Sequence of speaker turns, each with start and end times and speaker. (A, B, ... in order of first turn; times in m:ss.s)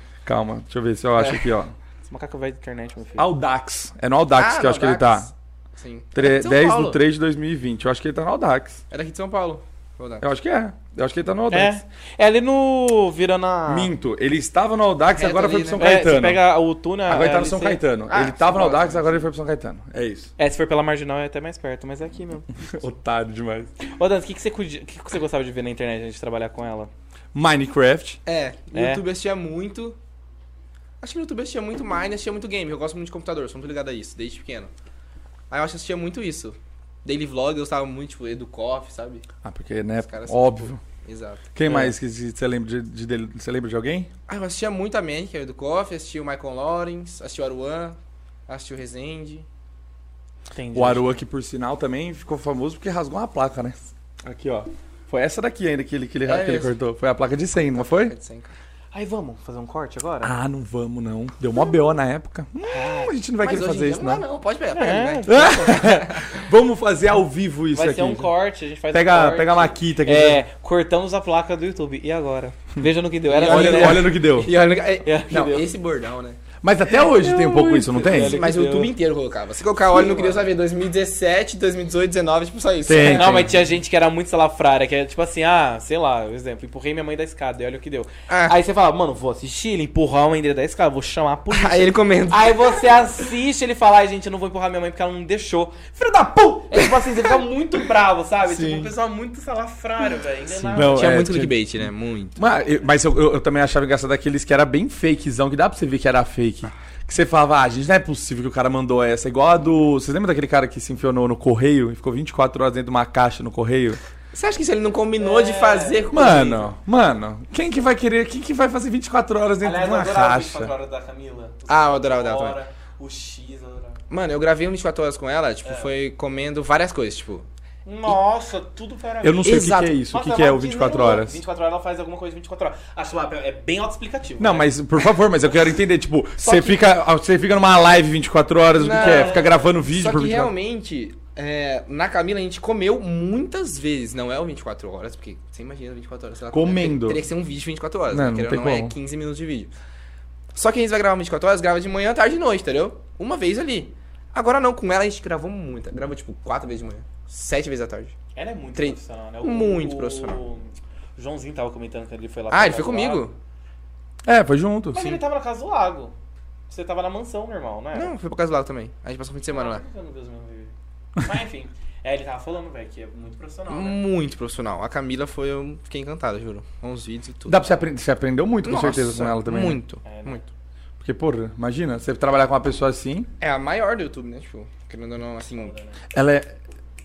0:00.2-0:01.7 A
0:02.1-0:03.3 B
0:03.2-0:05.3 A
0:04.3-0:07.0 C
0:06.1-0:08.8 A
0:08.9-0:10.3 C
0:10.2-0:11.8 A
0:11.5-0:13.9 B
0:13.7-0:16.4 A
0:15.1-0:15.9 C
0:15.8-0:17.8 B
0:17.1-0:20.3 A
0:18.1-0:19.3 C
0:20.4-0:22.5 B
0:22.6-0:23.7 A
0:23.8-0:26.9 B
0:27.3-0:28.2 A
0:28.2-0:30.0 C
0:28.7-0:29.0 B
0:31.0-0:34.7 C
0:35.5-0:39.2 C
0:39.4-0:40.8 A
0:40.0-0:41.5 C
0:41.5-0:44.1 A
0:41.6-0:41.9 B
0:44.3-0:48.0 C
0:48.5-0:49.4 C
0:50.5-0:51.2 B
0:50.7-0:58.1 A
0:56.2-0:56.7 C
0:57.7-0:58.5 C
0:58.9-1:00.3 B
1:00.2-1:04.2 A
1:02.6-1:03.1 B
1:03.4-1:06.4 C
1:04.7-1:05.4 B
1:05.3-1:08.3 A
1:07.7-1:14.2 B
1:08.9-1:10.4 A
1:13.3-1:16.4 C
1:13.4-1:14.6 A
1:15.0-1:15.6 B
1:15.3-1:15.6 A
1:16.6-1:18.4 A
1:17.0-1:18.9 B
1:18.1-1:23.5 C
1:20.0-1:20.4 B
1:22.8-1:23.5 A
1:23.0-1:41.2 B
1:28.3-1:28.6 C
1:31.5-1:33.1 C
1:36.7-1:37.4 C
1:38.4-1:38.9 C
1:40.5-1:54.0 A
1:40.8-1:42.4 C
1:54.3-1:56.7 C
1:55.2-1:56.1 B
1:56.1-2:00.7 A
1:59.6-2:04.0 B
2:01.7-2:02.6 C
2:04.1-2:07.4 C
2:05.6-2:05.9 B
2:07.8-2:14.8 B
2:09.2-2:11.4 A
2:09.4-2:10.0 C
2:14.4-2:20.5 A
2:16.4-2:16.8 B
2:18.8-2:29.7 C
2:18.9-2:19.7 B
2:26.5-2:27.2 A
2:28.1-2:28.9 A
2:30.5-2:38.1 C
2:38.4-2:43.3 B
2:38.8-2:40.4 C
2:42.5-2:43.3 C
2:44.2-2:45.0 A
2:44.9-2:46.1 B
2:46.7-2:48.1 B
2:47.9-2:49.8 C
2:49.5-2:54.0 B
2:53.7-2:57.7 C
2:57.5-2:59.8 A
2:58.6-3:00.5 C
3:00.0-3:00.4 B
3:01.0-3:03.3 A
3:03.4-3:05.8 C
3:05.6-3:06.0 B
3:06.1-3:06.5 A